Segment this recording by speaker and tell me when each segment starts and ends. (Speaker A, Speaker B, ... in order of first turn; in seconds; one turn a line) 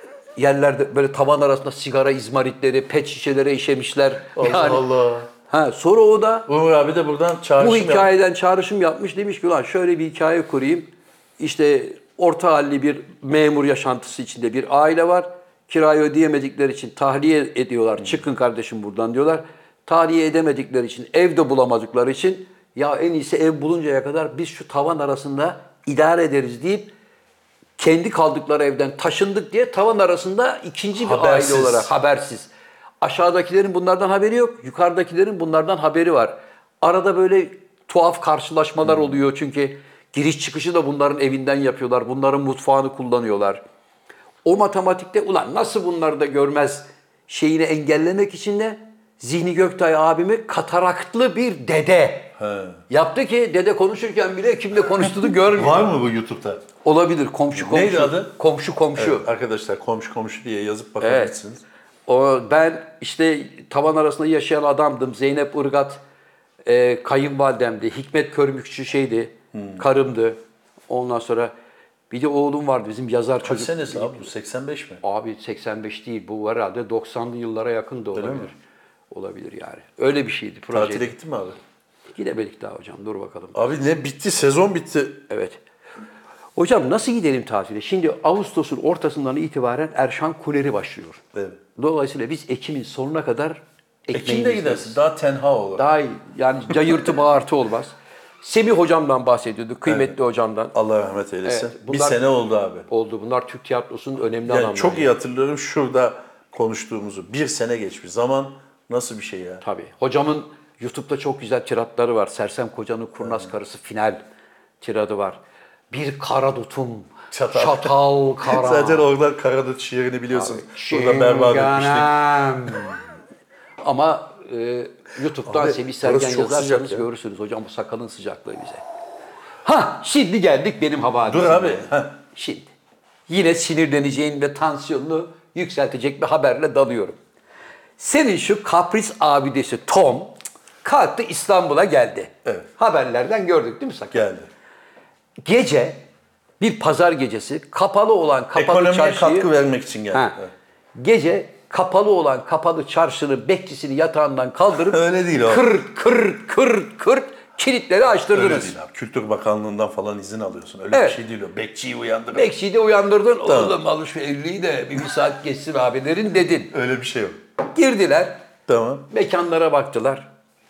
Speaker A: 0.3-4.8
Speaker B: 4.3-5.3
Speaker A: 5.5-6.5
Speaker B: 6.5-8.1
Speaker A: 7.6-26.9
Speaker A: 27.8-32.5
Speaker B: 31.0-31.9
Speaker A: 33.0-43.6
Speaker A: 44.4-52.3
Speaker B: 52.4-52.8
Speaker A: 52.9-55.9
Speaker B: 55.4-56.6
Speaker A: 56.8-59.3
Speaker B: 57.5-58.3
Speaker B: 59.0-61.6
Speaker A: 61.0-61.3
Speaker A: 62.1-66.0
Speaker A: 66.6-71.5
Speaker B: 69.5-69.8
Speaker A: 72.1-74.3
Speaker B: 73.4-75.0
Speaker A: 75.0-78.5
Speaker B: 78.1-78.5
Speaker A: 79.1-81.1
Speaker B: 80.7-81.6
Speaker A: 82.1-83.6
Speaker B: 83.5-85.2
Speaker A: 85.3-85.6
Speaker A: 86.5-91.2
Speaker A: 91.8-95.0
Speaker B: 94.1-95.8
Speaker A: 95.8-100.7
Speaker B: 99.8-100.1
Speaker B: 100.7-102.9
Speaker A: 101.4-102.2
Speaker A: 102.9-105.1
Speaker B: 104.5-109.6
Speaker A: 109.6-114.2
Speaker A: 114.8-115.4
Speaker A: 115.9-119.0
Speaker B: 117.3-122.8
Speaker A: 120.3-123.0
Speaker A: 123.8-128.8
Speaker B: 125.5-127.0
Speaker A: 129.6-132.7
Speaker B: 131.2-132.2
Speaker A: 133.3-137.2
Speaker A: 138.0-144.2
Speaker B: 144.1-144.5
Speaker A: 145.4-146.0
Speaker A: 146.6-149.5
Speaker B: 148.5-150.5
Speaker A: 150.1-150.4
Speaker A: 150.9-158.7
Speaker B: 154.9-155.7
Speaker B: 158.3-162.5
Speaker A: 160.9-161.2
Speaker A: 162.3-166.7
Speaker B: 163.4-163.8
Speaker B: 166.7-167.4
Speaker A: 167.6-168.4
Speaker B: 168.7-169.1
Speaker A: 169.1-170.3